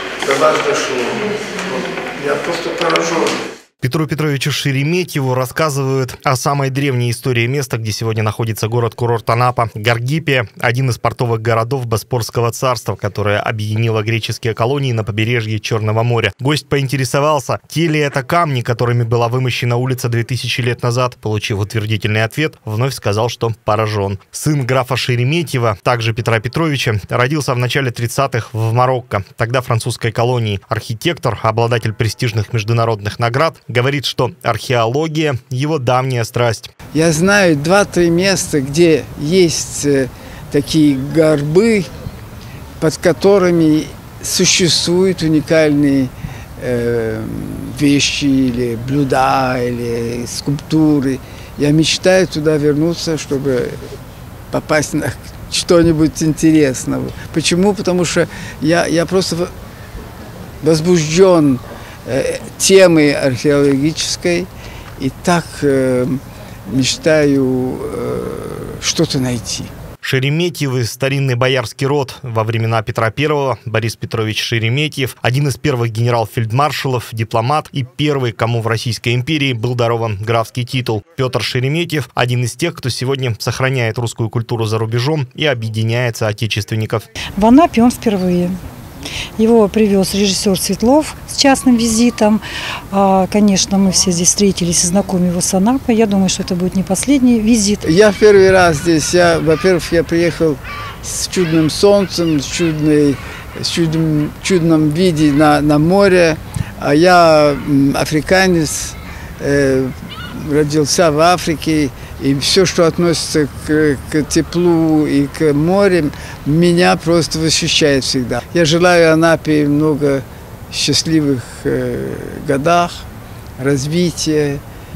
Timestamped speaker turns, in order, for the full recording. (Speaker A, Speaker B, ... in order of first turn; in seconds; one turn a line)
Speaker A: 0.2-3.5
Speaker B: 3.8-36.7
Speaker A: 36.9-41.9
Speaker A: 42.8-53.8
Speaker A: 54.5-59.5
Speaker A: 60.6-64.5
Speaker A: 65.0-69.7
Speaker B: 70.0-87.1
Speaker C: 87.4-88.6
Speaker C: 89.4-97.8
Speaker A: 97.8-123.0
Speaker A: 123.6-124.6